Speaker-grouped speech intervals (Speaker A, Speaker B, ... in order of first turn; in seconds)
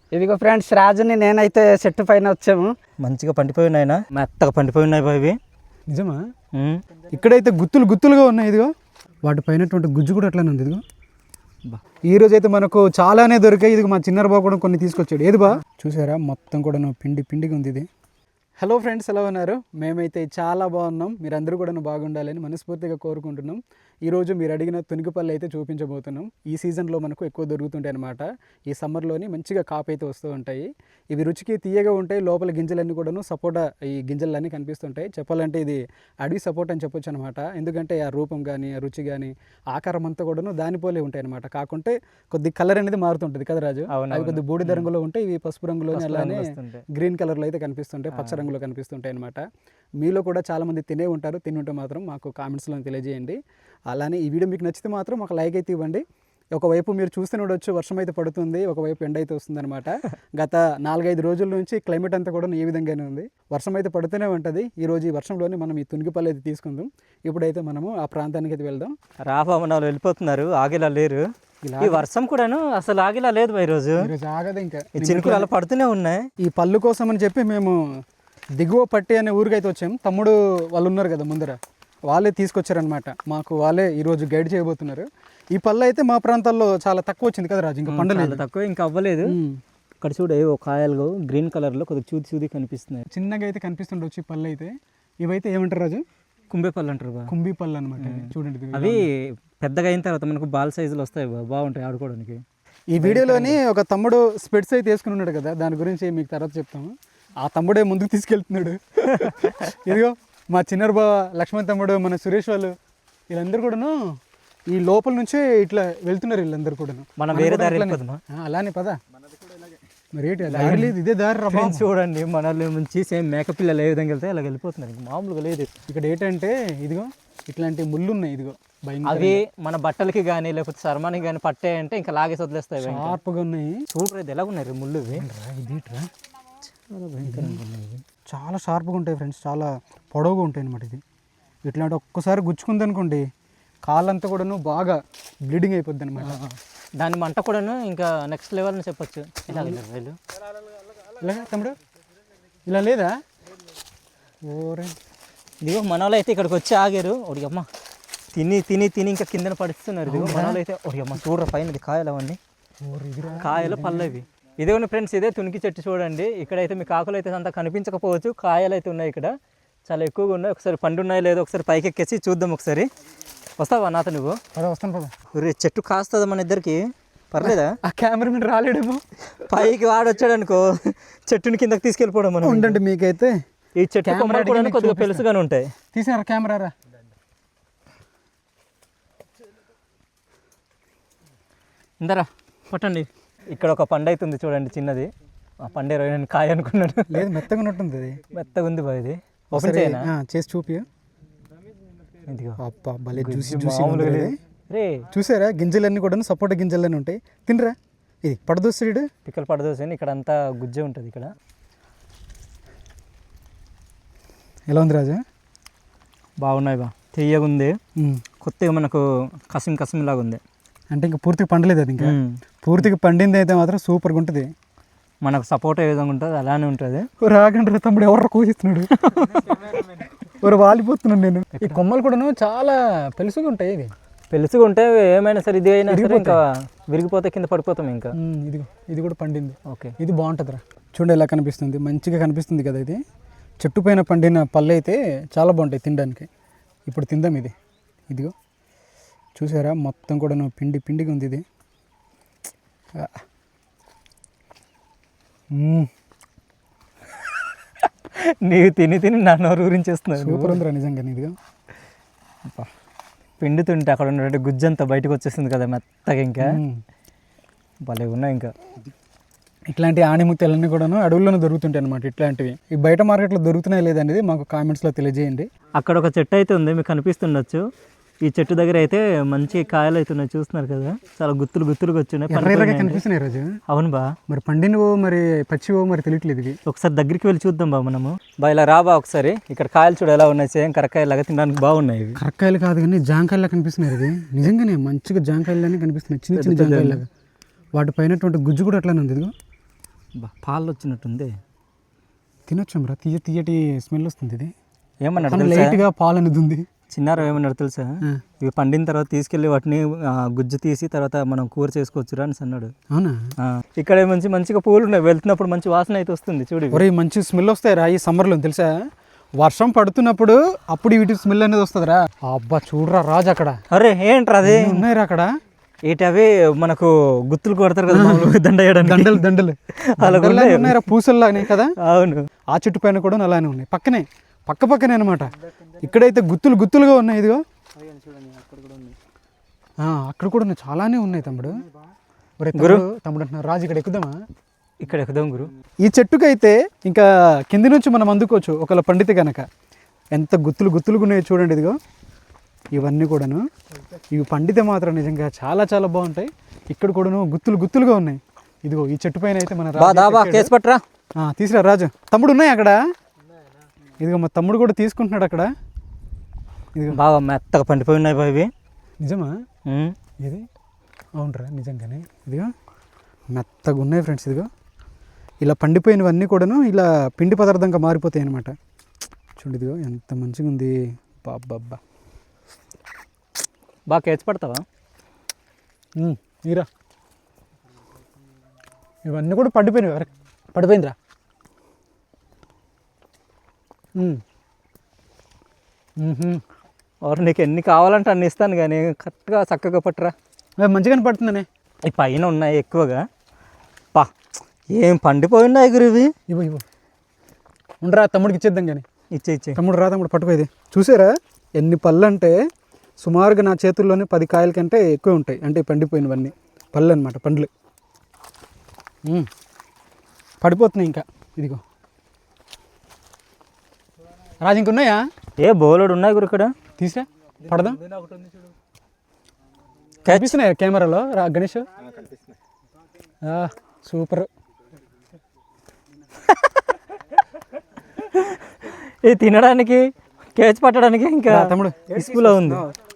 Speaker A: 0.1-2.7
Speaker B: 3.0-5.4, 6.5-6.8, 43.9-44.9, 45.9-46.9, 48.1-48.5, 69.2-71.2, 71.8-74.1, 75.0-76.3, 87.9-89.3, 90.0-93.0, 96.5-97.3, 98.0-102.4, 103.0-103.6, 109.2-109.7, 117.2-118.2, 120.4-121.0, 121.5-125.7, 129.1-133.2, 133.9-135.2, 136.9-138.0, 146.2-150.2, 155.6-157.7, 158.3-162.4, 163.3-169.3, 169.9-172.9, 173.6-174.4, 175.3-177.8, 179.5-182.8, 183.8-185.7, 192.0-195.1, 195.6-197.4, 198.3-200.1, 202.3-202.6, 203.1-205.1, 209.2-211.3, 216.4-217.8, 218.4-220.4, 222.0-222.4, 225.2-227.1, 228.9-230.1, 234.3-238.1, 239.7-239.9, 258.1-260.6, 263.4-266.6, 267.8-268.5, 275.8-277.6, 278.2-283.0, 283.7-284.1, 286.7-292.2, 296.4-297.0, 300.2-301.3, 305.0-305.8, 306.9-312.7, 313.4-316.8, 323.7-324.9, 325.9-329.2, 329.8-332.3, 338.1-338.9, 342.6-342.9, 344.8-345.5, 359.8-360.8, 366.9-368.5, 369.7-370.0, 383.9-384.6, 397.0-400.1, 401.9-403.0, 404.7-406.1, 409.1-409.6, 425.4-426.5, 430.1-430.4, 436.3-436.6, 438.0-442.7
Speaker C: 5.9-6.2, 7.1-8.7, 9.2-10.8, 12.1-17.9, 18.6-49.4, 50.0-68.9, 71.6-72.0, 74.0-75.5, 76.4-77.8, 78.6-88.4, 89.3-89.6, 93.1-96.0, 97.3-99.0, 102.9-112.7, 113.3-114.0, 114.7-119.0, 120.2-121.8, 125.9-129.4, 132.8-133.8, 135.1-136.1, 137.2-137.6, 138.3-141.0, 141.7-143.3, 143.8-146.4, 151.2-151.8, 152.7-153.2, 154.4-154.9, 160.1-160.6, 162.8-164.1, 174.5-175.1, 177.5-179.5, 182.4-183.3, 184.0-185.2, 185.9-186.7, 197.1-198.2, 199.5-200.9, 202.6-204.4, 205.1-209.1, 214.7-215.2, 218.0-218.2, 220.9-224.5, 227.2-229.6, 230.2-233.9, 235.9-236.4, 238.2-243.0, 243.6-246.3, 246.9-247.6, 249.4-251.4, 253.0-253.2, 255.5-255.9, 260.2-261.4, 266.4-266.8, 269.7-275.5, 282.3-283.5, 284.3-286.6, 292.2-297.1, 297.8-299.3, 302.5-304.5, 305.2-306.6, 312.9-313.2, 316.7-318.8, 319.4-323.6, 324.4-325.3, 327.9-331.7, 332.5-337.4, 339.8-341.6, 342.4-344.2, 345.8-349.4, 350.1-351.8, 352.7-353.4, 354.1-360.5, 361.2-362.8, 364.0-365.5, 366.8-367.0, 369.0-369.3, 370.2-370.5, 371.2-372.5, 373.3-374.5, 375.4-378.6, 379.4-381.8, 386.0-386.7, 389.1-390.9, 396.0-396.4, 400.6-401.5, 406.3-406.6, 407.8-408.9, 409.6-412.4, 413.0-417.5, 420.4-421.6, 424.4-425.0, 426.8-427.8, 430.1-431.7, 433.2-434.3, 441.3-441.9